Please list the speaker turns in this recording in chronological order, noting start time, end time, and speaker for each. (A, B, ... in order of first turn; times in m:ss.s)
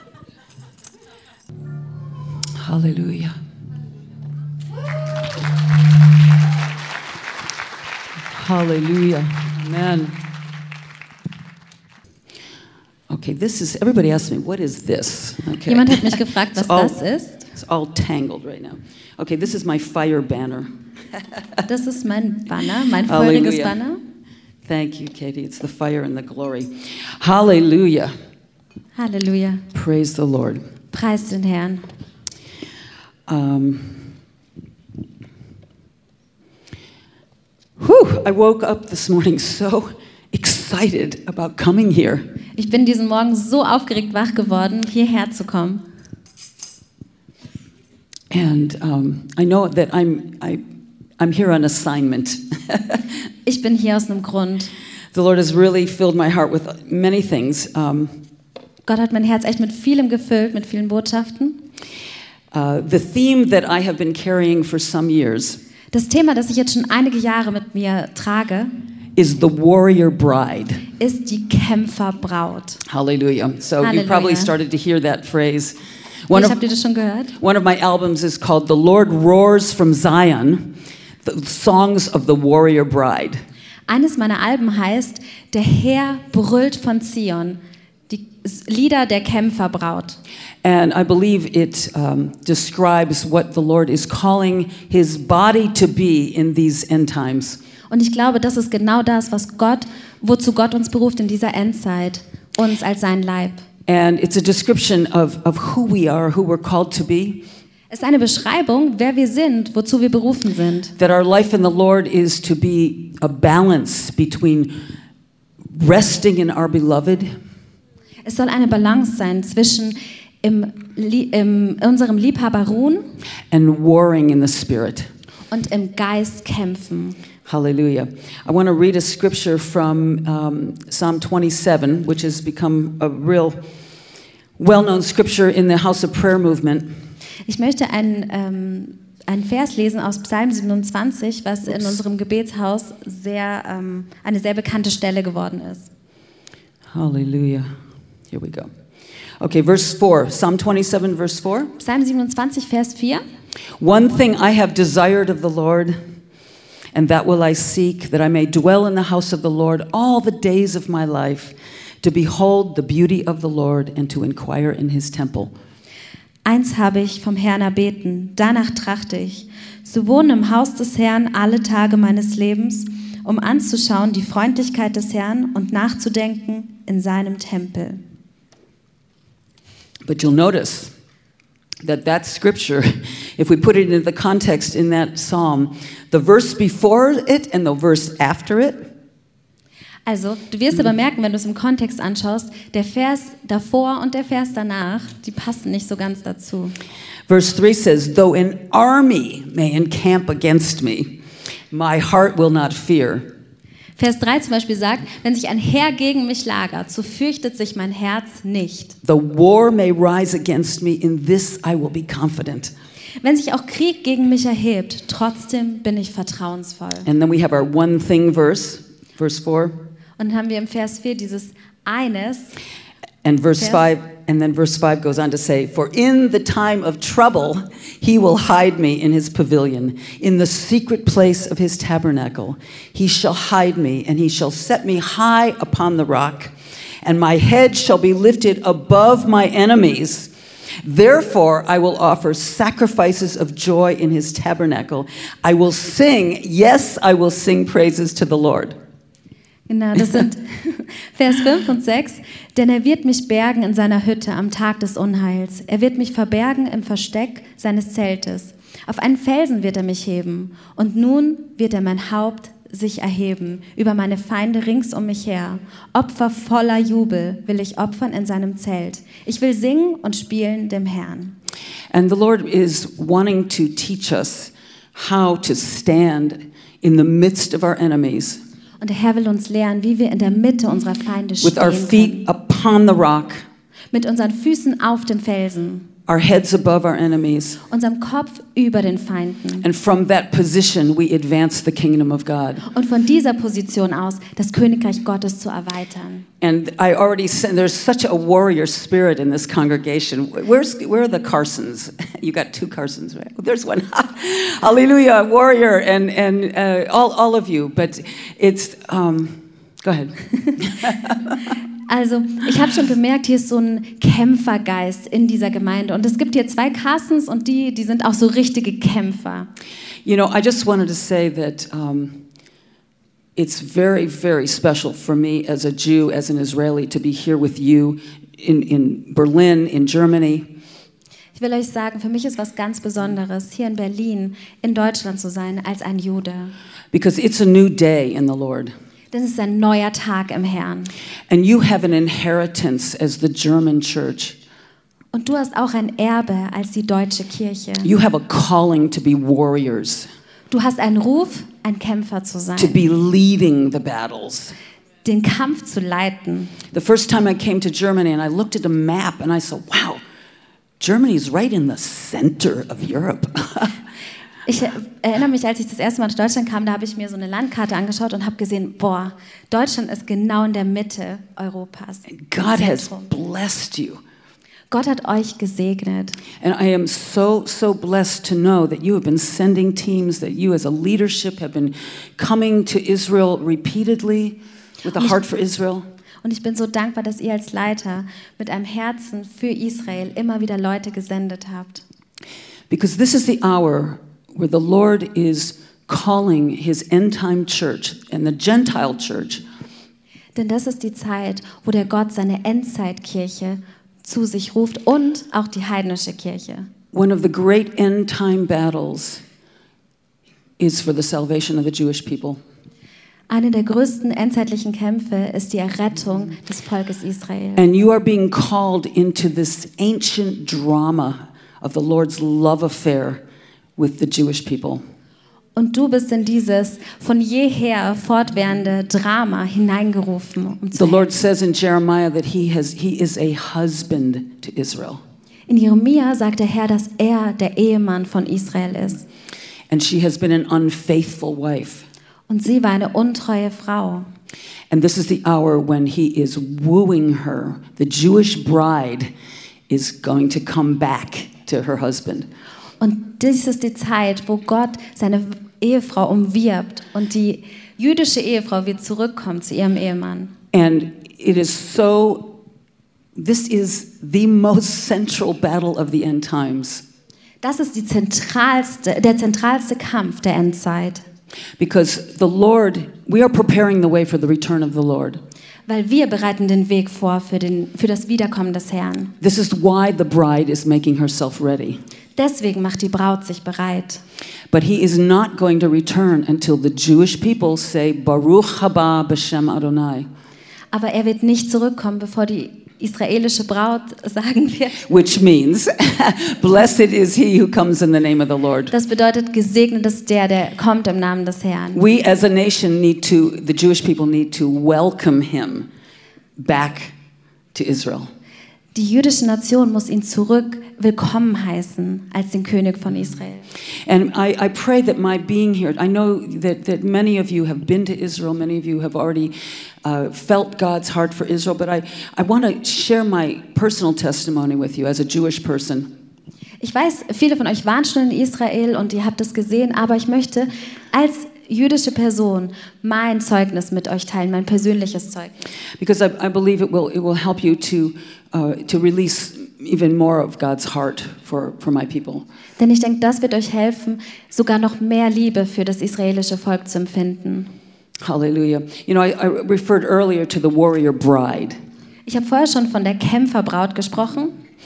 0:02.5-0:03.4 A
0:08.3-0:10.2 A
0:13.1-0:17.0 A
0:15.6-0:17.4 B
0:17.5-0:20.7 A
0:21.6-0:24.0 B
0:23.1-0:23.8 A
0:24.6-0:28.1 A
0:29.0-0:29.6 B
0:29.7-0:30.6 A
0:30.9-0:31.8 B
0:33.3-0:34.1 A
0:37.8-0:42.4 A
0:42.6-0:45.9 B
0:48.3-0:50.6 A
0:51.2-0:53.0 A
0:53.4-0:54.7 B
0:55.1-0:58.1 A
0:58.8-1:01.6 B
1:02.5-1:05.6 A
1:05.9-1:08.7 B
1:09.1-1:10.8 A
1:11.0-1:12.8 B
1:12.8-1:15.8 A
1:13.8-1:14.5 B
1:16.3-1:16.6 A
1:16.3-1:17.3 B
1:17.4-1:23.4 A
1:23.9-1:30.2 B
1:30.6-1:37.6 A
1:37.9-1:43.6 B
1:43.9-1:47.5 A
1:47.9-1:50.9 B
1:51.0-1:54.8 A
1:55.7-1:57.3 A
1:58.2-2:03.1 B
2:03.5-2:05.1 A
2:05.5-2:07.2 B
2:07.4-2:13.6 A
2:14.6-2:16.9 A
2:17.4-2:25.9 B
2:26.9-2:27.7 A
2:28.3-2:28.7 A
2:29.4-2:31.7 A
2:31.8-2:33.2 B
2:33.8-2:36.0 A
2:36.9-2:45.5 A
2:46.4-2:58.0 B
3:00.0-3:00.9 A
3:01.8-3:08.9 A
3:10.0-3:16.8 B
3:17.3-3:21.2 A
3:21.7-3:23.3 A
3:24.0-3:29.0 B
3:29.0-3:32.7 A
3:33.2-3:37.1 B
3:37.0-3:39.8 A
3:40.2-3:42.6 B
3:43.2-4:00.3 A
4:00.8-4:08.8 A
4:09.7-4:31.4 B
4:31.9-4:38.4 A
4:38.8-4:42.2 B
4:41.4-4:43.4 A
4:43.9-4:45.9 B
4:46.1-4:47.6 A
4:47.7-4:49.6 B
4:49.6-4:52.6 A
4:52.6-4:56.3 B
4:56.4-5:11.3 A
5:11.9-5:19.5 B
5:20.0-5:22.2 A
5:23.4-5:30.5 A
5:31.4-5:36.5 B
5:36.9-5:38.7 A
5:39.1-5:40.9 B
5:41.3-5:44.4 A
5:45.1-5:47.9 B
5:47.8-5:50.1 A
5:50.5-5:52.8 B
5:52.6-5:54.5 A
5:55.0-5:56.5 B
5:56.7-6:00.0 A
6:00.8-6:03.8 A
6:04.4-6:13.1 B
6:12.1-6:14.0 A
6:14.7-6:16.2 B
6:16.4-6:25.8 A
6:26.2-6:31.8 B
6:32.7-6:39.4 A
6:40.3-6:46.7 B
6:46.9-6:49.2 A
6:50.6-6:52.4 A
6:53.3-6:57.6 B
6:57.6-7:03.2 A
7:03.8-7:04.8 A
7:05.6-7:11.0 B
7:10.7-7:15.0 A
7:15.5-7:19.0 B
7:19.7-7:21.9 A
7:22.3-7:24.1 B
7:24.7-7:29.1 A
7:29.7-7:32.3 A
7:32.8-7:40.3 B
7:40.5-7:42.4 A
7:43.2-7:46.8 A
7:47.4-7:51.0 B
7:51.6-7:55.2 A
7:55.7-7:59.1 B
7:59.2-8:01.8 A
8:02.2-8:04.0 B
8:04.5-8:10.1 A
8:10.7-8:14.8 B
8:14.8-8:18.7 A
8:18.7-8:21.8 B
8:21.7-8:25.7 A
8:26.4-8:26.9 A
8:27.5-8:28.1 A
8:28.7-8:33.4 B
8:33.8-8:45.9 A
8:46.6-8:55.5 B
8:55.8-9:02.2 A
9:02.6-9:07.5 B
9:08.0-9:11.6 A
9:12.0-9:14.4 B